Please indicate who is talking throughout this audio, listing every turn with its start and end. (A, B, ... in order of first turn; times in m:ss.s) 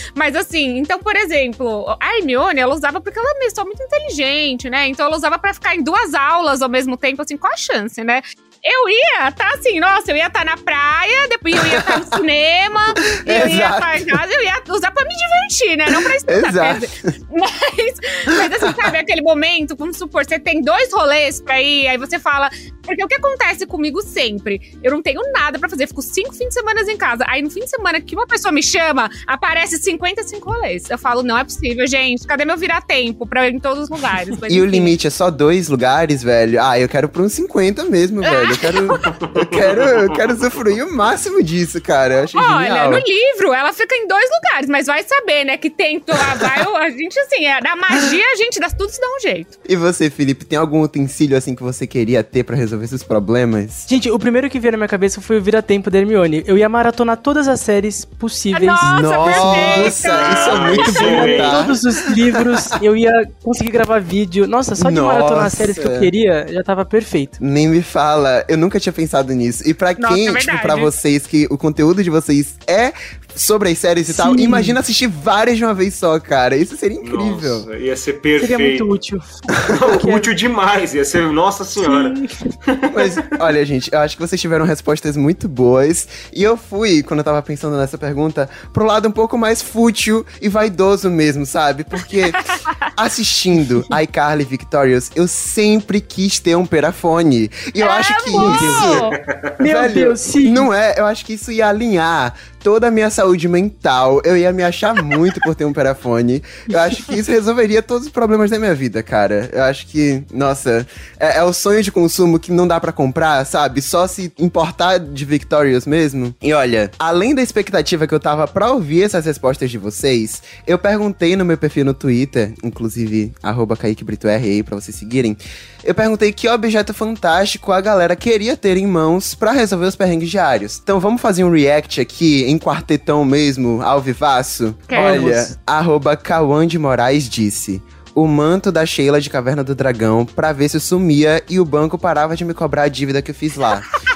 0:00.2-0:34.9 A
0:11.6-0:12.2 B
0:12.9-0:14.2 B
0:15.9-0:17.1 B
0:18.3-0:18.9 B
0:34.5-0:43.0 B
0:38.2-0:39.0 A
0:39.1-0:40.1 C
0:42.4-0:49.6 A
0:49.7-0:53.9 B
0:53.9-0:59.9 D
0:58.5-1:01.3 A
0:58.8-1:01.8 B
1:00.0-1:01.7 C
1:01.1-1:07.4 D
1:04.8-1:06.1 B
1:07.4-1:17.7 B
1:10.0-1:10.9 A
1:14.1-1:14.8 D
1:17.0-1:18.9 C
1:18.4-1:20.3 D
1:19.7-1:23.3 C
1:21.8-1:22.3 D
1:22.9-1:39.0 B
1:37.8-1:39.2 A
1:38.4-1:39.1 D
1:39.1-1:39.5 C
1:39.6-1:40.7 D
1:39.6-2:23.9 B
2:14.9-2:15.2 A
2:14.9-2:15.6 D